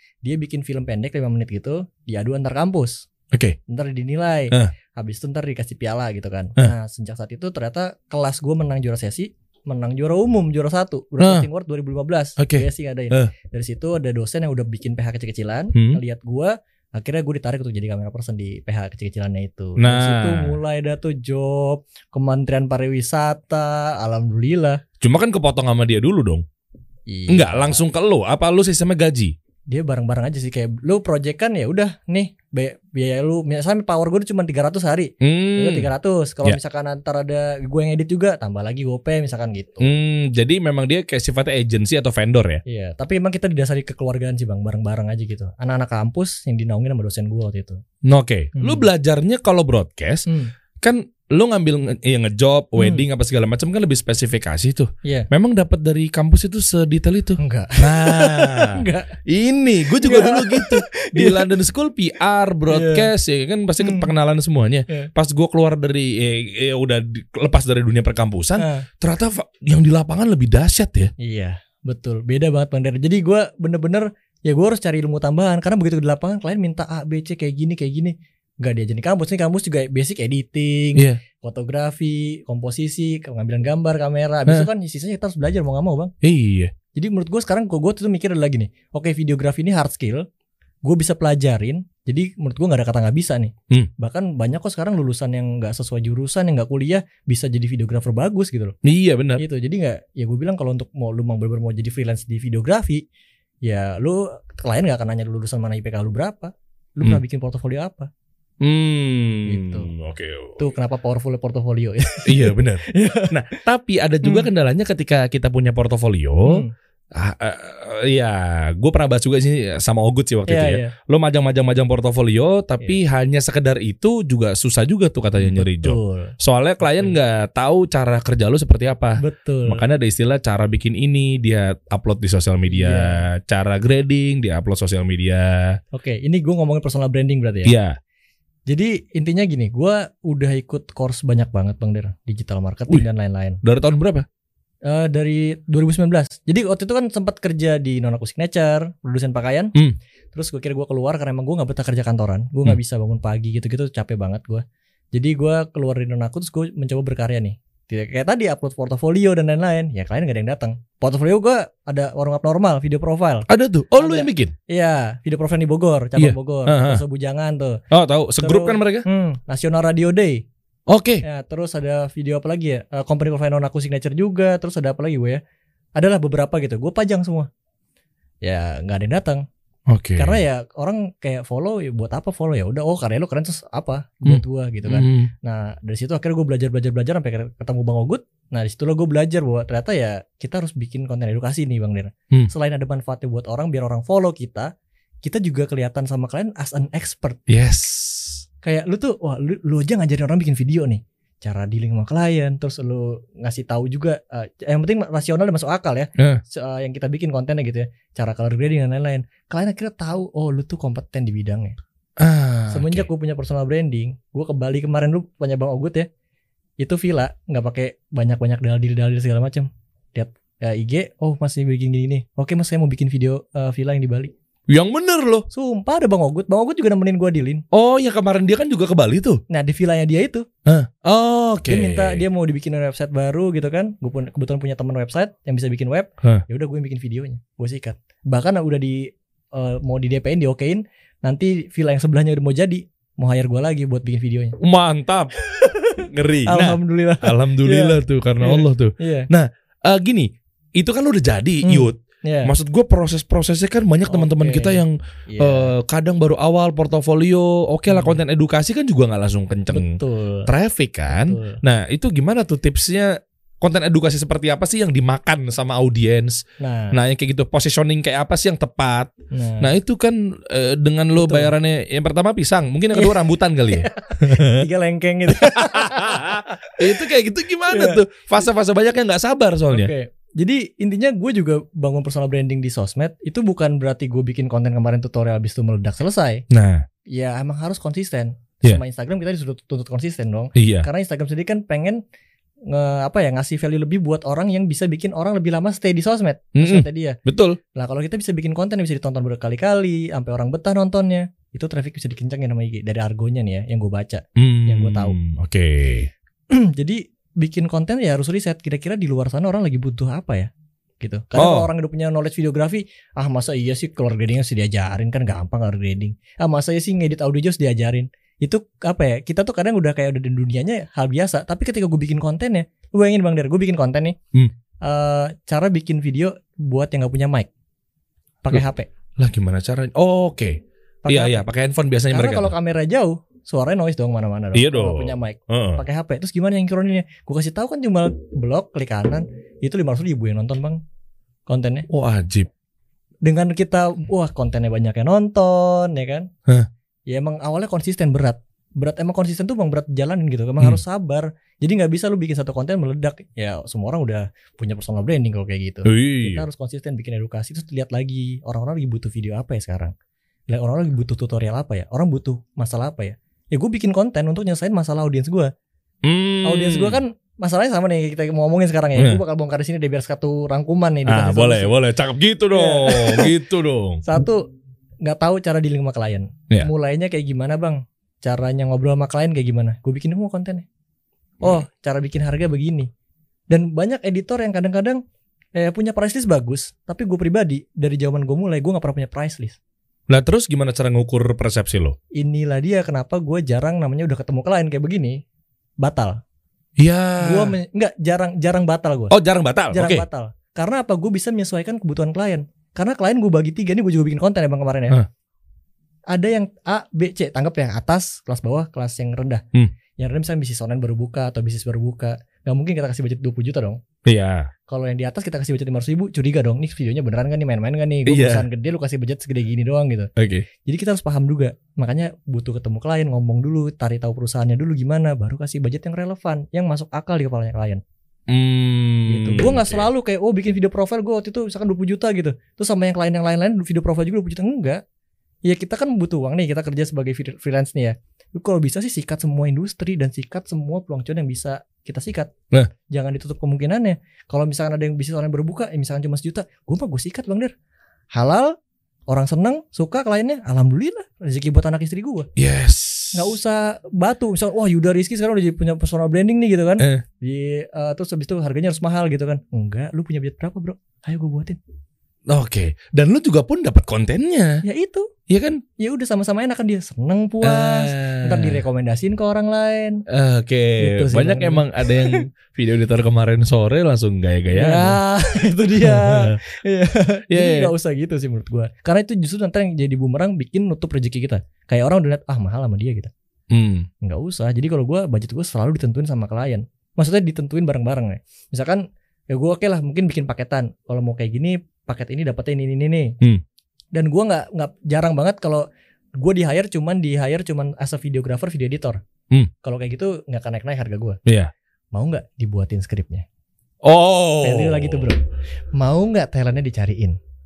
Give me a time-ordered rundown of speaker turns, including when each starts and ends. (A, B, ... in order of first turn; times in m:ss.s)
0:00.2-0:03.1 A
0:03.3-0:03.6 B
0:03.7-0:24.8 A
0:11.2-0:11.5 B
0:12.4-0:13.3 B
0:15.7-0:16.0 B
0:19.8-0:20.6 B
0:25.0-0:26.4 B
0:27.1-0:27.8 A
0:27.3-0:29.3 B
0:29.7-0:39.9 A
0:35.2-0:35.9 B
0:39.8-0:42.6 B
0:42.6-0:47.8 A
0:48.0-0:50.2 B
0:48.5-0:48.9 A
0:50.3-0:50.5 A
0:50.8-1:11.1 B
0:52.8-0:53.0 A
0:57.4-0:59.1 A
1:00.0-1:01.5 A
1:02.7-1:03.1 A
1:03.8-1:04.1 A
1:08.6-1:08.9 A
1:11.2-1:26.1 A
1:20.9-1:21.2 B
1:26.2-1:26.7 B
1:26.9-1:30.2 A
1:30.8-1:38.8 A
1:38.8-1:39.4 B
1:39.4-1:43.0 A
1:43.6-1:48.1 A
1:48.6-1:50.6 B
1:49.4-1:49.9 A
1:50.6-1:53.6 A
1:52.2-2:15.8 B
1:54.2-1:54.5 A
1:56.4-1:56.7 A
2:00.5-2:00.9 A
2:05.4-2:07.1 A
2:09.2-2:09.8 A
2:12.7-2:13.2 A
2:15.9-2:17.7 A
2:17.6-2:18.0 B
2:18.7-2:23.6 A
2:23.6-2:24.2 B
2:24.8-2:29.7 A
2:30.3-2:47.8 A
2:43.5-2:44.5 B
2:46.2-2:47.0 B
2:47.9-2:49.0 B
2:48.4-2:50.4 A
2:50.9-2:51.2 B
2:51.2-2:55.4 A
2:56.0-2:57.5 A
2:58.4-2:59.4 A
2:59.9-3:00.4 B
3:00.2-3:14.7 A
3:04.2-3:05.3 B
3:15.2-3:17.4 A
3:17.5-3:18.4 B
3:18.6-3:31.8 A
3:32.2-3:33.1 B
3:32.7-3:36.1 A
3:36.8-3:44.3 A
3:44.7-3:45.4 B
3:45.5-3:47.6 A
3:47.7-3:49.4 B
3:49.5-3:50.4 A
3:50.6-3:52.2 B
3:51.7-4:04.6 A
4:04.6-4:05.3 B
4:05.4-4:09.3 A
4:06.0-4:34.6 B
4:11.6-4:12.5 A
4:14.1-4:15.7 A
4:17.9-4:18.2 A
4:19.7-4:20.5 A
4:21.1-4:21.6 A
4:26.6-4:27.0 A
4:29.3-4:29.7 A
4:31.1-4:31.5 A
4:32.9-4:36.9 A
4:35.3-4:39.9 B
4:37.7-4:38.0 A
4:39.7-4:46.4 A
4:46.5-4:46.8 B
4:47.1-4:52.0 A
4:50.6-4:50.9 B
4:52.7-4:57.2 A
4:56.6-4:57.6 B
4:57.7-5:05.2 A
5:04.4-5:06.1 B
5:06.5-5:10.5 A
5:11.0-5:24.2 A
5:11.4-5:11.7 B
5:24.8-5:27.5 A
5:28.4-5:28.9 A
5:29.2-5:32.5 B
5:31.0-5:31.4 A
5:32.1-5:40.8 A
5:34.5-5:35.8 B
5:41.5-5:41.9 A
5:41.9-5:42.5 B
5:43.2-5:46.3 A
5:47.1-5:59.9 A
5:55.8-5:56.4 B
6:00.5-6:05.5 A
6:06.0-6:07.0 B
6:06.4-6:11.7 A
6:11.0-6:14.0 B
6:12.5-6:13.3 A
6:14.0-6:14.5 A
6:15.0-6:20.6 A
6:21.4-6:22.9 A
6:23.5-6:25.0 A
6:25.5-6:29.6 A
6:30.1-6:32.0 B
6:32.1-6:35.2 A
6:35.8-6:36.2 A
6:36.8-6:37.5 B
6:37.2-6:39.2 A
6:39.1-6:40.0 B
6:39.7-6:45.0 A
6:46.1-6:49.4 A
6:50.0-6:53.8 A
6:54.0-6:54.5 B
6:54.7-7:00.1 A
6:58.1-6:58.5 B
7:00.2-7:00.5 B
7:00.6-7:07.8 A
7:08.3-7:09.8 B
7:09.1-7:14.8 A
7:15.4-7:22.3 A
7:22.9-7:27.5 A
7:28.1-7:28.6 A
7:29.1-7:32.3 A
7:32.4-7:33.3 B
7:33.1-7:41.6 A
7:42.3-7:44.6 B
7:44.6-7:45.1 A
7:45.3-7:45.6 B
7:45.8-7:50.0 A
7:47.4-7:48.6 B
7:50.1-7:55.0 B
7:50.8-7:52.2 A
7:54.5-8:03.1 A
7:55.8-7:56.4 B
7:57.3-7:57.7 B
8:03.5-8:03.9 B
8:04.0-8:13.2 A
8:13.9-8:15.6 A
8:16.2-8:19.0 A
8:19.6-8:21.2 A
8:21.2-8:21.5 B
8:21.9-8:23.2 A
8:23.8-8:25.1 B
8:24.4-8:25.2 A
8:25.7-8:27.2 A